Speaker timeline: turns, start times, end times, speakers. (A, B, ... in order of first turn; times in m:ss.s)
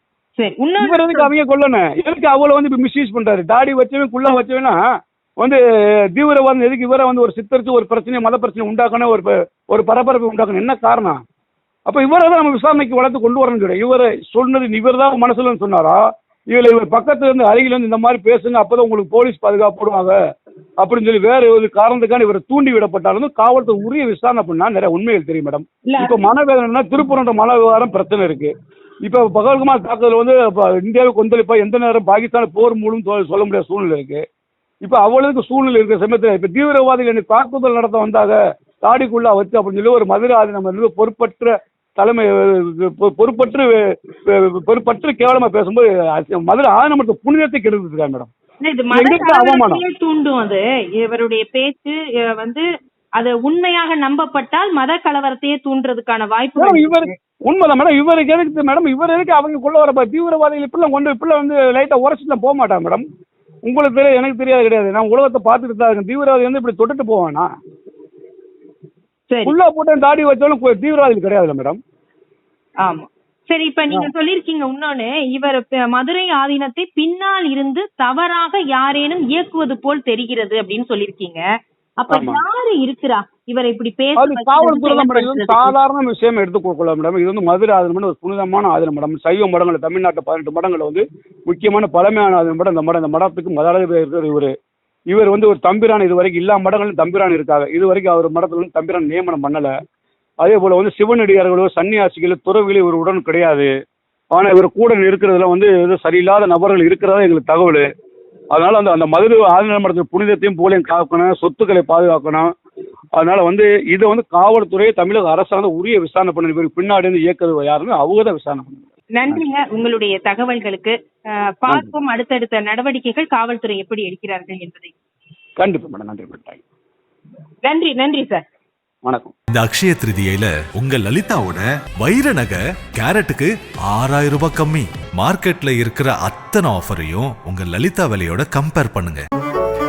0:00.4-0:01.3 A
0:00.8-0:04.8 B
0:06.2-0:11.2 B
0:11.9-0:20.2 B
0:20.8-0:28.5 B
0:25.9-0:26.3 A
0:29.1-0:34.2 B
0:34.8-0:43.8 B
0:44.3-0:48.3 B
0:48.6-0:52.6 A
0:48.9-0:49.8 B
0:53.2-0:57.1 A
0:56.6-1:03.0 B
1:03.6-1:07.5 B
1:09.3-1:09.6 A
1:09.4-1:11.8 B
1:12.8-1:21.4 A
1:22.0-1:25.8 A
1:22.1-1:22.4 B
1:24.2-1:34.5 B
1:35.1-1:39.7 B
1:40.4-1:43.7 B
1:44.3-1:47.9 B
1:48.5-1:52.5 B
1:53.2-1:59.4 B
1:59.2-2:01.0 A
2:01.5-2:04.9 A
2:01.7-2:01.9 B
2:05.6-2:06.6 B
2:07.6-2:08.4 A
2:09.1-2:09.3 B
2:09.5-2:19.2 C